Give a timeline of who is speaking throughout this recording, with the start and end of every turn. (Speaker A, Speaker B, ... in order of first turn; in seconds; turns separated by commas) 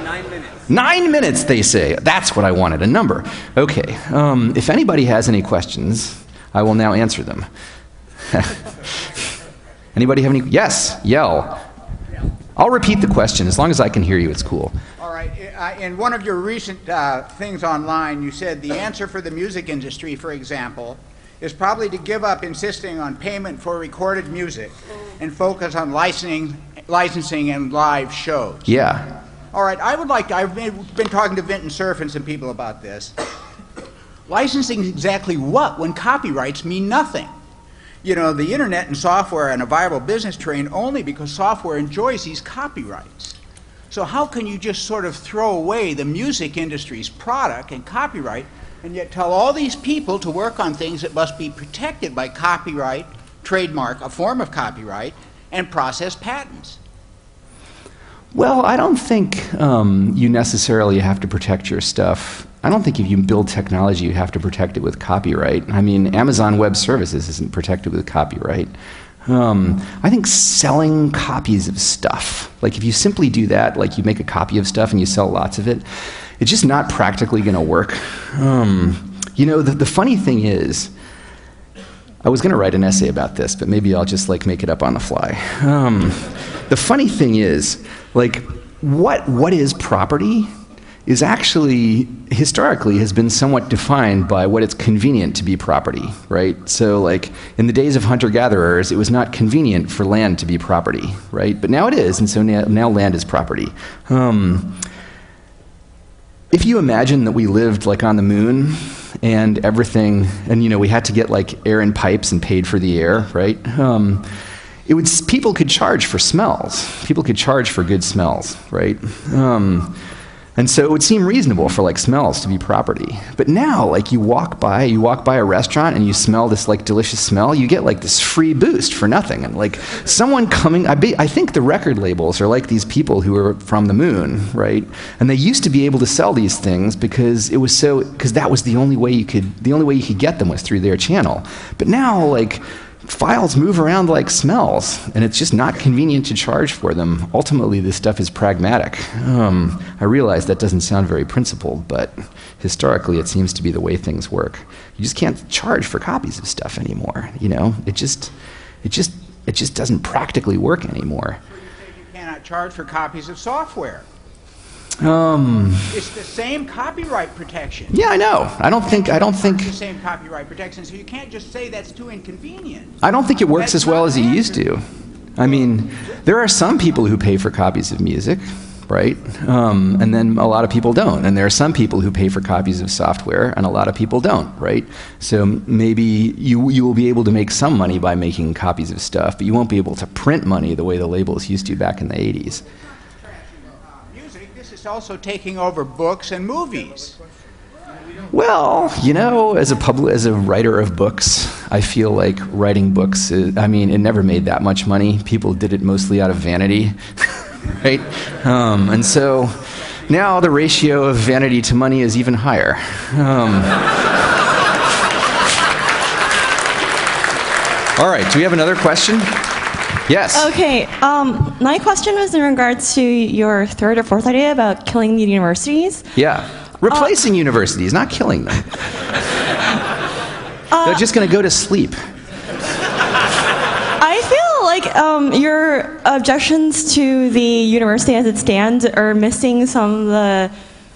Speaker A: 0.7-7.5, Speaker A: 8.3-9.0, Speaker A: 9.9-11.6, Speaker A: 12.6-14.8, Speaker B: 15.0-28.7, Speaker A: 28.6-29.1, Speaker B: 29.5-33.1, Speaker B: 34.3-37.3, Speaker B: 38.0-43.4, Speaker B: 43.9-56.8, Speaker A: 58.3-68.7, Speaker A: 69.2-75.8, Speaker A: 76.4-80.9, Speaker A: 82.2-90.5, Speaker A: 91.1-104.8, Speaker A: 106.5-114.3, Speaker A: 114.8-120.0, Speaker A: 120.6-158.3, Speaker A: 158.8-161.4, Speaker B: 161.5-164.0, Speaker A: 165.0-165.9, Speaker B: 165.9-167.9, Speaker A: 167.9-169.7, Speaker B: 168.8-174.6, Speaker A: 173.0-174.8, Speaker A: 175.3-192.6, Speaker B: 193.2-197.2, Speaker A: 198.3-207.2, Speaker A: 207.8-213.9, Speaker A: 217.9-219.4, Speaker A: 220.1-220.5, Speaker C: 220.3-226.1, Speaker A: 226.1-228.7, Speaker C: 230.7-231.0, Speaker A: 230.8-232.0, Speaker C: 234.0-240.5